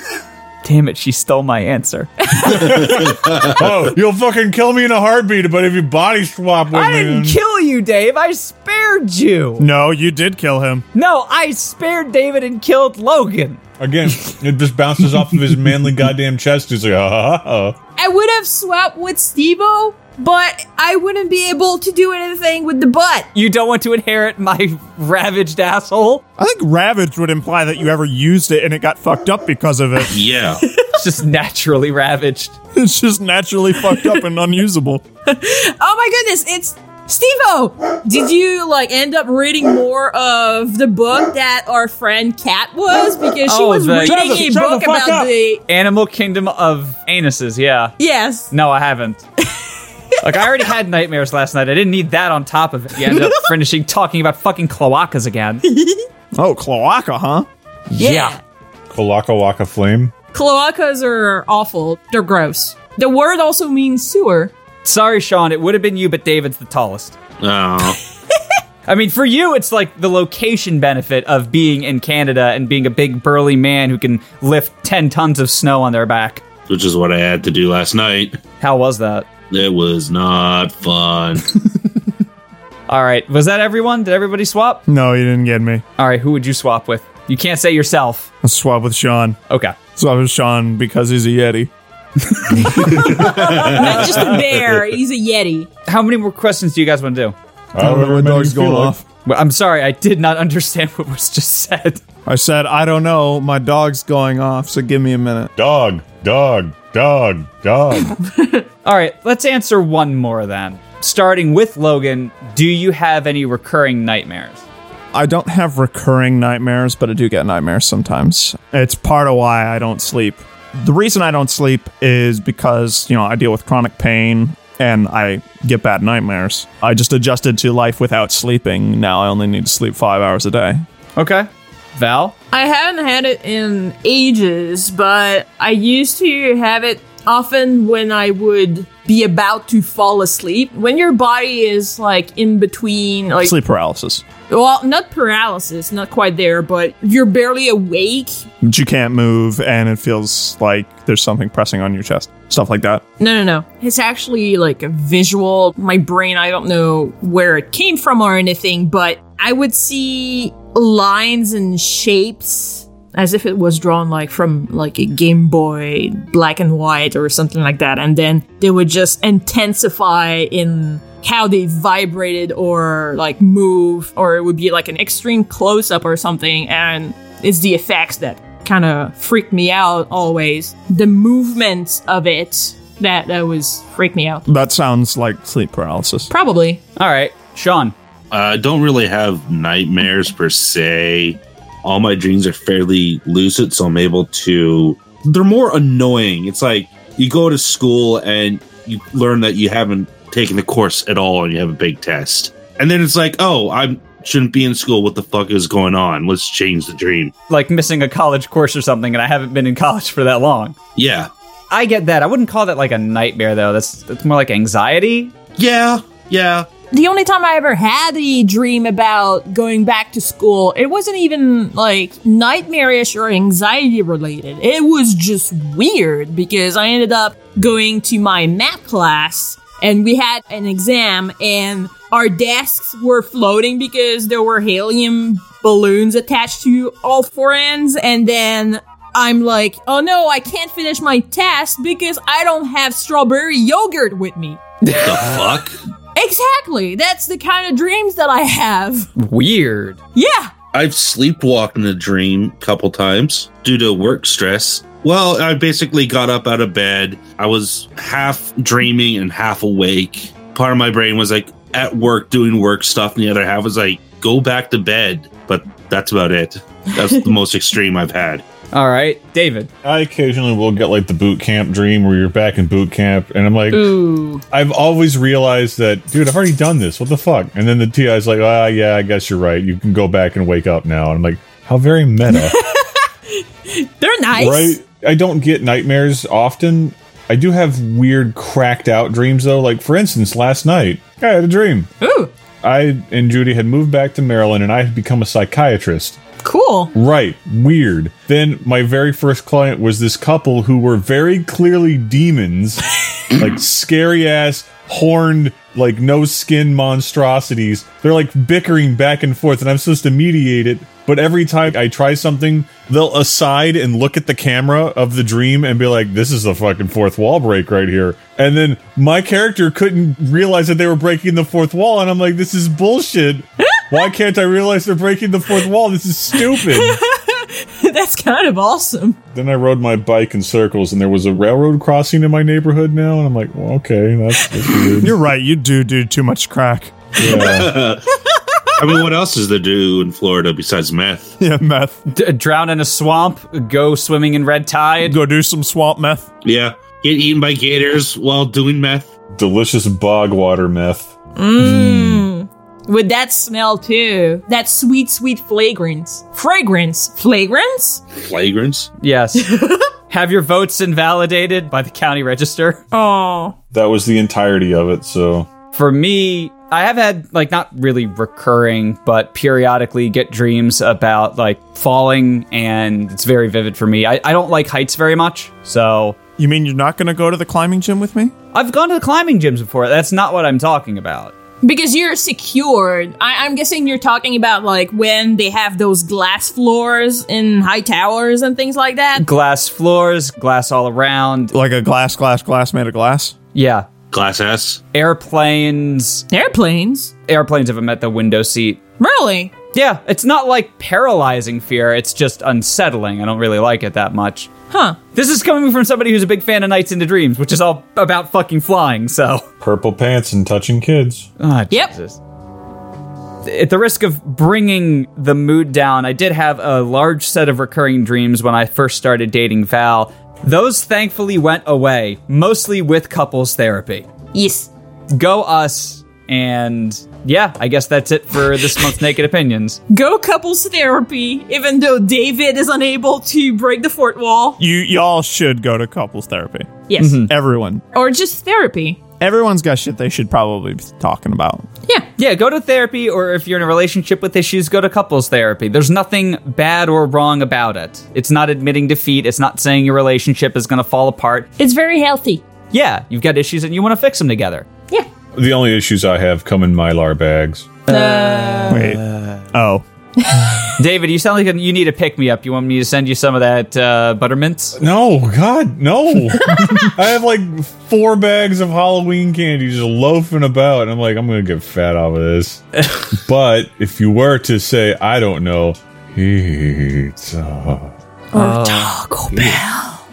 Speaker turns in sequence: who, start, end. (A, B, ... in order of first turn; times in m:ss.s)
0:00.6-0:02.3 A
0:02.3-0:03.2 B
0:02.5-0:07.4 C
0:02.8-0:03.6 D
0:06.7-0:09.7 A
0:09.6-0:10.8 E
0:10.9-0:13.6 A
0:13.8-0:17.8 C
0:18.0-0:23.3 B
0:23.3-0:26.2 A
0:26.4-0:30.2 E
0:30.1-0:30.6 D
0:30.6-0:30.9 B
0:30.9-0:32.5 A
0:32.8-0:35.0 E
0:33.9-0:34.2 B
0:35.3-0:45.6 B
0:43.5-0:44.5 A
0:44.0-0:45.3 E
0:45.7-0:47.9 A
0:48.0-0:48.5 B
0:48.5-0:49.2 A
0:50.2-0:55.6 A
0:55.6-0:56.0 B
0:56.3-0:57.5 E
0:57.9-0:58.4 A
0:58.0-0:58.4 B
0:58.9-1:00.1 C
1:00.3-1:04.5 B
1:04.8-1:07.2 A
1:07.4-1:08.0 D
1:08.9-1:16.4 A
1:16.7-1:18.4 D
1:18.6-1:19.3 A
1:19.5-1:21.4 D
1:22.9-1:24.8 A
1:24.9-1:25.8 E
1:26.0-1:28.3 A
1:28.4-1:29.4 E
1:29.5-1:29.8 A
1:29.9-1:31.7 E
1:32.7-1:35.7 B
1:32.9-1:33.8 D
1:35.8-1:37.3 A
1:37.7-1:39.0 C
1:37.8-1:39.0 E
1:39.2-1:42.0 A
1:42.2-1:45.5 E
1:45.6-1:48.2 C
1:48.8-1:54.6 A
1:55.1-2:10.8 E
2:11.2-2:12.3 A
2:12.5-2:23.5 B
2:23.4-2:24.2 E
2:24.5-2:28.4 B
2:28.6-2:33.0 E
2:33.2-3:04.4 B
3:04.5-3:06.3 E
3:06.3-3:06.8 B
3:07.0-3:07.9 A
3:08.3-3:27.3 D
3:27.5-3:30.8 A
3:31.0-3:31.3 D
3:31.7-3:35.3 A
3:35.6-3:36.7 D
3:36.9-4:04.6 B
4:04.8-4:05.2 A
4:04.9-4:05.7 D
4:06.1-4:09.1 B
4:09.2-4:10.0 A
4:10.1-4:10.5 B
4:10.7-4:28.4 D
4:28.7-4:29.7 A
4:29.8-4:33.9 C
4:33.7-4:34.4 B
4:34.5-4:42.6 C
4:42.4-4:43.0 B
4:43.7-4:44.8 B
4:44.3-4:51.9 C
4:52.0-4:52.3 B
4:52.6-4:56.2 C
4:56.4-4:56.9 B
4:56.9-5:27.0 C
5:26.4-5:29.2 B
5:29.3-5:35.2 C
5:35.0-5:37.7 E
5:37.2-5:38.0 D
5:37.2-5:37.7 C
5:38.8-5:41.4 D
5:41.4-5:42.0 E
5:42.1-5:45.2 A
5:45.0-5:46.3 E
5:46.4-5:49.1 D
5:49.3-5:52.3 C
5:51.4-5:58.0 B
5:58.2-5:58.9 D
5:59.0-5:59.5 A
5:59.3-5:59.9 B
6:00.1-6:02.8 A
6:02.9-6:03.5 B
6:03.7-6:05.5 C
6:05.7-6:16.2 A
6:16.4-6:18.3 E
6:18.5-6:21.3 A
6:21.6-6:29.2 B
6:29.2-6:31.5 A
6:31.5-6:33.3 E
6:33.5-6:33.9 A
6:34.1-6:34.8 D
6:34.9-6:36.2 A
6:36.3-6:37.1 B
6:37.3-6:38.8 A
6:39.0-6:39.5 B
6:39.7-6:44.5 A
6:44.7-6:45.0 B
6:45.1-6:49.5 A
6:49.6-6:51.3 C
6:51.4-6:52.2 A
6:53.4-7:04.1 A
7:04.3-7:04.7 B
7:05.1-7:09.8 A
7:09.9-7:14.6 B
7:14.6-7:17.8 E
7:16.9-7:17.2 B
7:17.0-7:17.3 A
7:17.9-7:19.0 B
7:19.2-7:21.7 E
7:22.2-7:31.5 A
7:31.6-7:32.4 B
7:32.7-7:34.7 A
7:35.4-7:37.7 C
7:37.9-7:39.0 B
7:38.7-7:39.8 E
7:40.2-7:40.7 B
7:40.8-7:44.8 A
7:44.8-7:57.9 C
7:58.3-8:00.0 B
7:58.3-7:59.6 A